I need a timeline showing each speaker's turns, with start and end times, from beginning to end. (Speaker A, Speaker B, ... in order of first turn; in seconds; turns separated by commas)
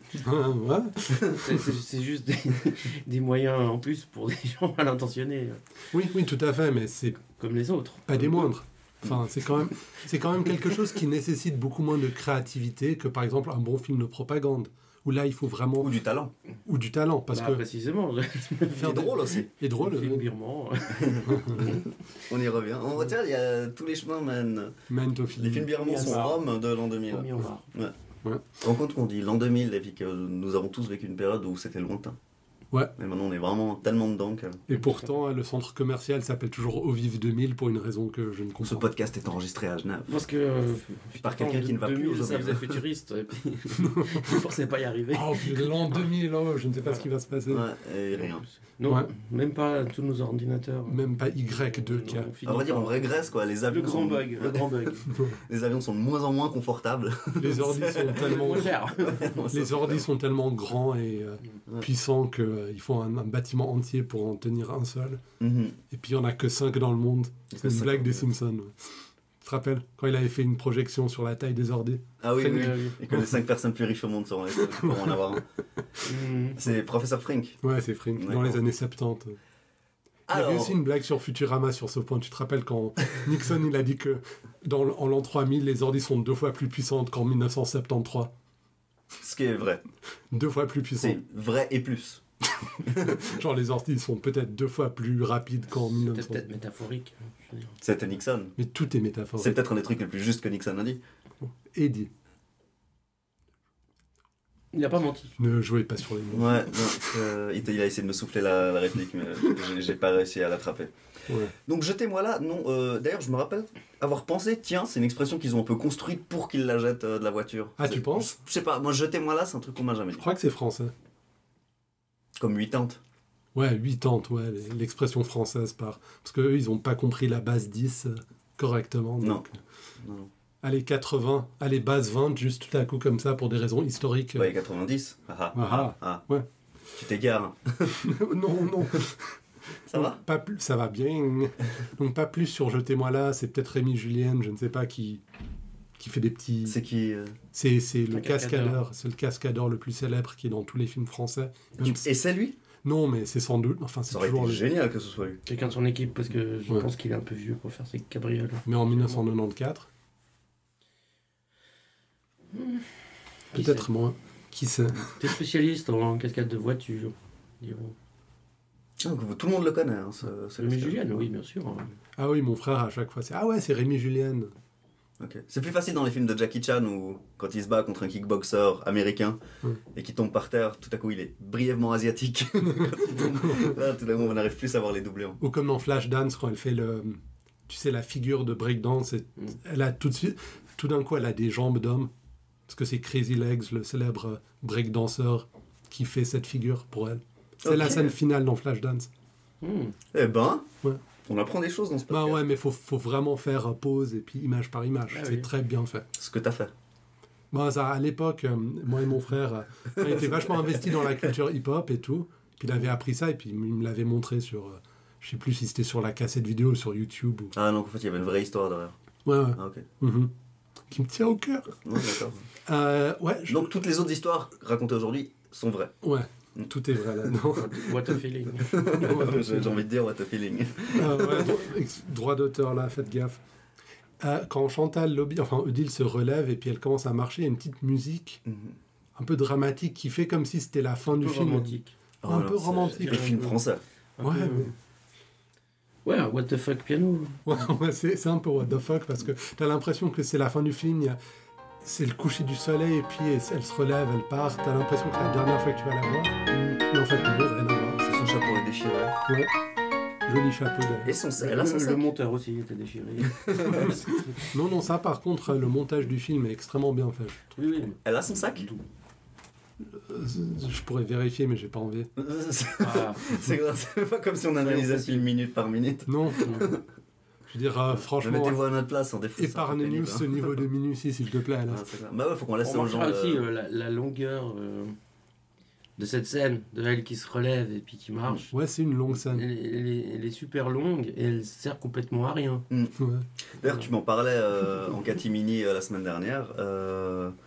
Speaker A: 0.2-1.2, Speaker B: 1.1-1.4, Speaker C: 1.2-5.6, Speaker A: 5.9-7.2, Speaker C: 7.2-8.4, Speaker A: 8.1-15.9, Speaker B: 15.8-16.3, Speaker A: 16.6-17.6, Speaker C: 17.3-21.9, Speaker B: 18.8-19.5, Speaker A: 18.8-20.3, Speaker B: 20.9-24.8, Speaker A: 21.3-21.8, Speaker A: 24.9-26.4, Speaker B: 25.3-27.9, Speaker C: 25.8-26.4, Speaker C: 27.1-27.6, Speaker B: 28.6-32.2, Speaker B: 33.0-34.6, Speaker A: 34.7-38.9, Speaker B: 38.6-40.1, Speaker C: 40.1-46.1, Speaker B: 41.2-42.8, Speaker A: 43.9-44.3, Speaker A: 45.1-47.6, Speaker B: 47.5-48.5, Speaker C: 48.2-55.1, Speaker A: 50.9-52.3, Speaker B: 52.5-60.0, Speaker A: 57.4-58.7, Speaker C: 58.1-59.4, Speaker A: 59.5-65.2, Speaker B: 65.4-65.8, Speaker A: 65.9-73.4, Speaker B: 67.5-68.2, Speaker B: 72.2-75.4, Speaker C: 72.5-72.9, Speaker A: 74.5-75.4, Speaker C: 76.0-76.6, Speaker B: 76.6-77.6, Speaker A: 77.6-79.4, Speaker B: 78.2-78.6, Speaker B: 80.3-80.8, Speaker A: 80.3-88.3, Speaker B: 89.2-89.8, Speaker A: 90.3-91.2, Speaker B: 91.0-92.2, Speaker B: 92.8-93.3, Speaker A: 92.9-96.4, Speaker C: 95.9-97.8, Speaker B: 97.8-98.5, Speaker A: 98.6-99.6, Speaker B: 99.4-101.0, Speaker A: 101.4-102.1, Speaker C: 104.7-105.4, Speaker A: 105.4-107.1, Speaker B: 106.3-110.9, Speaker B: 111.7-120.3, Speaker A: 117.8-118.3, Speaker A: 120.2-120.9, Speaker B: 122.4-123.0, Speaker A: 123.5-129.5, Speaker B: 129.2-129.5, Speaker B: 130.0-130.3, Speaker A: 130.6-134.5, Speaker B: 134.3-136.2, Speaker A: 135.5-136.5, Speaker B: 136.9-138.1, Speaker A: 137.9-139.4, Speaker B: 139.9-140.2, Speaker A: 139.9-145.2, Speaker A: 146.0-146.8, Speaker B: 146.7-147.4, Speaker A: 147.5-152.1, Speaker C: 148.1-148.8, Speaker B: 151.8-152.6, Speaker A: 152.8-154.6, Speaker B: 154.1-155.4, Speaker C: 155.5-159.2, Speaker A: 158.7-159.9, Speaker C: 162.5-163.9, Speaker A: 163.5-165.3, Speaker C: 165.2-167.9, Speaker B: 169.0-171.2, Speaker C: 170.6-172.0, Speaker A: 172.2-174.5, Speaker B: 175.2-179.4, Speaker B: 179.9-185.4, Speaker A: 182.7-183.7, Speaker A: 185.4-192.1, Speaker A: 192.7-199.1, Speaker B: 197.6-198.1, Speaker C: 199.6-200.0, Speaker B: 200.1-200.7, Speaker B: 201.2-202.4, Speaker A: 202.1-206.1, Speaker C: 205.1-205.5, Speaker B: 206.2-206.7, Speaker A: 207.5-217.5, Speaker B: 209.9-211.0, Speaker B: 217.5-218.9, Speaker A: 219.2-220.3, Speaker B: 219.6-219.9, Speaker A: 220.9-222.1, Speaker B: 221.8-222.4, Speaker A: 222.7-223.7, Speaker B: 223.5-225.9, Speaker A: 226.0-228.1, Speaker C: 227.5-229.1, Speaker B: 228.6-231.5, Speaker A: 229.0-229.8, Speaker A: 230.9-233.4, Speaker A: 234.2-238.4, Speaker B: 238.4-238.8, Speaker A: 239.2-243.3, Speaker C: 241.1-241.9, Speaker B: 242.2-243.8, Speaker C: 242.9-243.6, Speaker C: 244.2-244.7, Speaker A: 244.2-244.7, Speaker C: 246.0-247.6, Speaker A: 247.4-251.2, Speaker A: 251.8-258.2, Speaker B: 256.5-256.8, Speaker B: 258.1-259.1, Speaker A: 259.3-259.5, Speaker A: 260.2-261.1, Speaker B: 261.0-262.0, Speaker C: 261.4-264.5, Speaker B: 263.2-264.0, Speaker A: 264.5-267.5, Speaker C: 267.5-268.8, Speaker B: 268.0-268.7, Speaker A: 269.8-272.1, Speaker B: 272.2-276.8, Speaker C: 272.8-273.3, Speaker C: 274.6-275.3, Speaker A: 276.1-276.7, Speaker C: 276.4-276.7, Speaker A: 277.5-278.6, Speaker B: 278.1-280.6, Speaker A: 279.4-281.8, Speaker B: 281.7-283.4, Speaker C: 282.6-285.0, Speaker C: 286.0-288.5, Speaker A: 288.5-289.4, Speaker C: 289.1-292.6, Speaker B: 292.7-292.9, Speaker A: 293.0-293.2, Speaker B: 293.6-297.3